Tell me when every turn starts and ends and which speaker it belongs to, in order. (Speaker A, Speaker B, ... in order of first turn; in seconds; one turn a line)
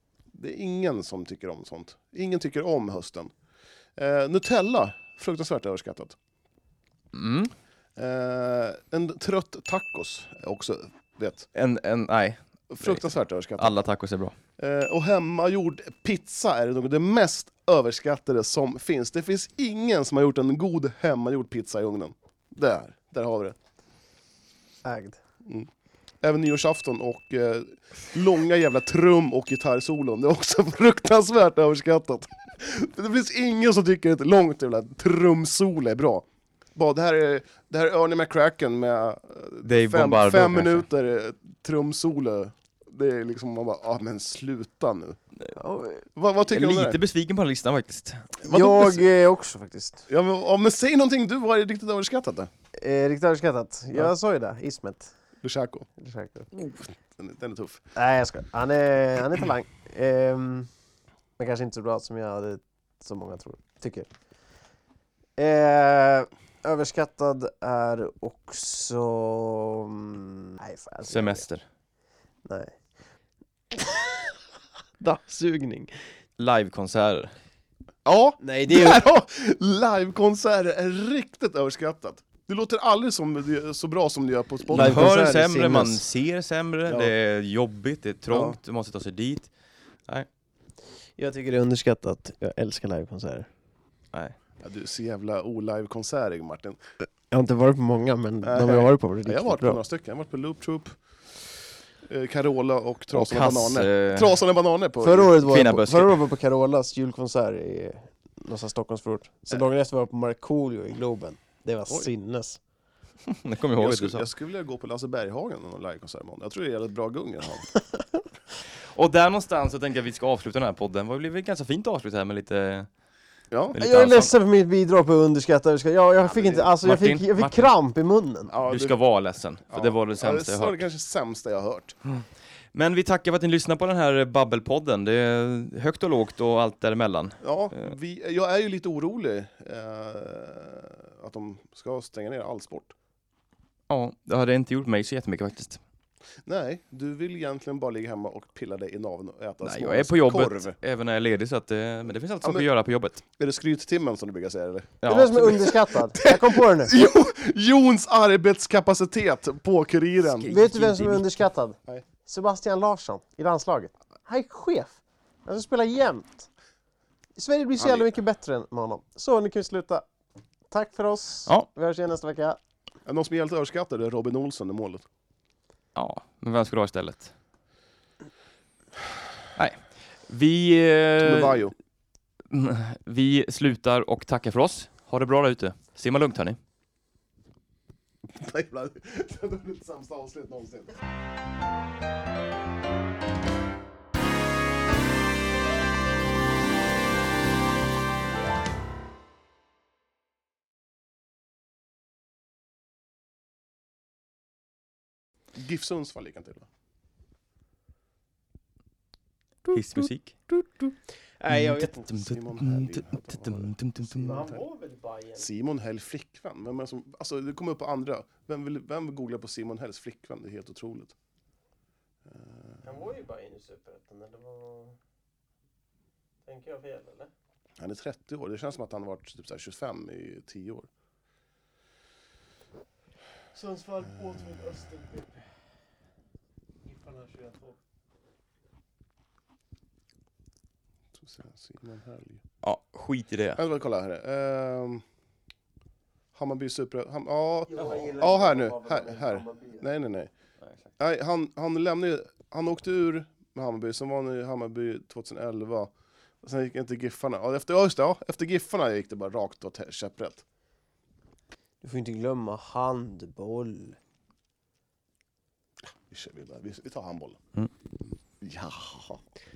Speaker A: 0.3-3.3
Speaker A: 4.0-6.2
Speaker B: 7.1-7.5
Speaker A: 8.0-11.5
Speaker B: 11.5-13.0
Speaker A: 12.7-13.7
Speaker B: 13.6-14.3
Speaker A: 14.6-23.6
Speaker C: 24.8-25.2
Speaker A: 26.2-36.2
Speaker A: 36.8-45.2
Speaker B: 39.6-40.9
Speaker C: 45.6-46.0
Speaker A: 46.1-47.0
Speaker B: 46.5-48.4
Speaker C: 48.4-50.1
Speaker A: 48.5-48.9
Speaker A: 50.1-52.5
Speaker C: 52.8-55.1
Speaker A: 55.4-55.9
Speaker C: 56.0-56.5
Speaker A: 57.2-57.8
Speaker C: 58.0-60.7
Speaker C: 61.4-64.1
Speaker C: 65.4-71.4
Speaker B: 71.1-71.6
Speaker C: 72.5-72.8
Speaker C: 73.7-74.3
Speaker C: 75.0-75.9
Speaker B: 76.4-77.3
Speaker A: 78.0-85.1
Speaker C: 78.4-79.0
Speaker C: 84.7-86.0
Speaker B: 84.7-89.5
Speaker A: 88.3-88.6
Speaker C: 91.2-93.5
Speaker A: 94.6-96.8
Speaker C: 97.3-99.8
Speaker A: 98.4-101.0
Speaker A: 102.0-105.4
Speaker B: 103.1-104.4
Speaker C: 105.0-112.6
Speaker B: 105.4-106.2
Speaker B: 113.3-114.3
Speaker A: 113.8-117.7
Speaker B: 119.0-122.9
Speaker B: 123.7-124.3
Speaker C: 123.8-128.5
Speaker A: 126.3-126.7
Speaker B: 126.8-127.7
Speaker A: 128.5-129.0
Speaker B: 128.6-130.8
Speaker A: 129.7-132.0
Speaker B: 132.7-137.9
Speaker A: 137.4-142.9
Speaker B: 143.9-145.8
Speaker A: 146.5-150.8
Speaker B: 149.6-153.2
Speaker A: 153.4-160.6
Speaker B: 155.0-155.8
Speaker C: 155.1-156.9
Speaker B: 160.3-161.3
Speaker C: 160.5-166.5
Speaker C: 167.4-170.1
Speaker A: 167.8-168.1
Speaker C: 170.7-172.6
Speaker A: 173.1-175.1
Speaker B: 175.9-177.3
Speaker B: 179.6-181.7
Speaker A: 181.2-181.7
Speaker B: 182.5-186.6
Speaker A: 188.3-191.0
Speaker A: 205.6-206.7
Speaker C: 209.7-212.1
Speaker B: 209.7-210.3
Speaker B: 211.5-214.5
Speaker A: 212.2-214.6
Speaker C: 214.2-215.5
Speaker A: 215.4-221.1
Speaker A: 222.3-222.8
Speaker C: 222.8-225.0
Speaker C: 226.4-227.3
Speaker A: 227.8-230.9
Speaker C: 233.5-235.5
Speaker C: 236.8-237.8
Speaker A: 241.2-242.4
Speaker B: 242.6-243.6
Speaker A: 243.6-245.0
Speaker A: 246.3-250.3
Speaker C: 247.7-249.8
Speaker A: 251.0-260.4
Speaker C: 261.8-264.0
Speaker A: 266.1-267.4
Speaker A: 268.4-269.2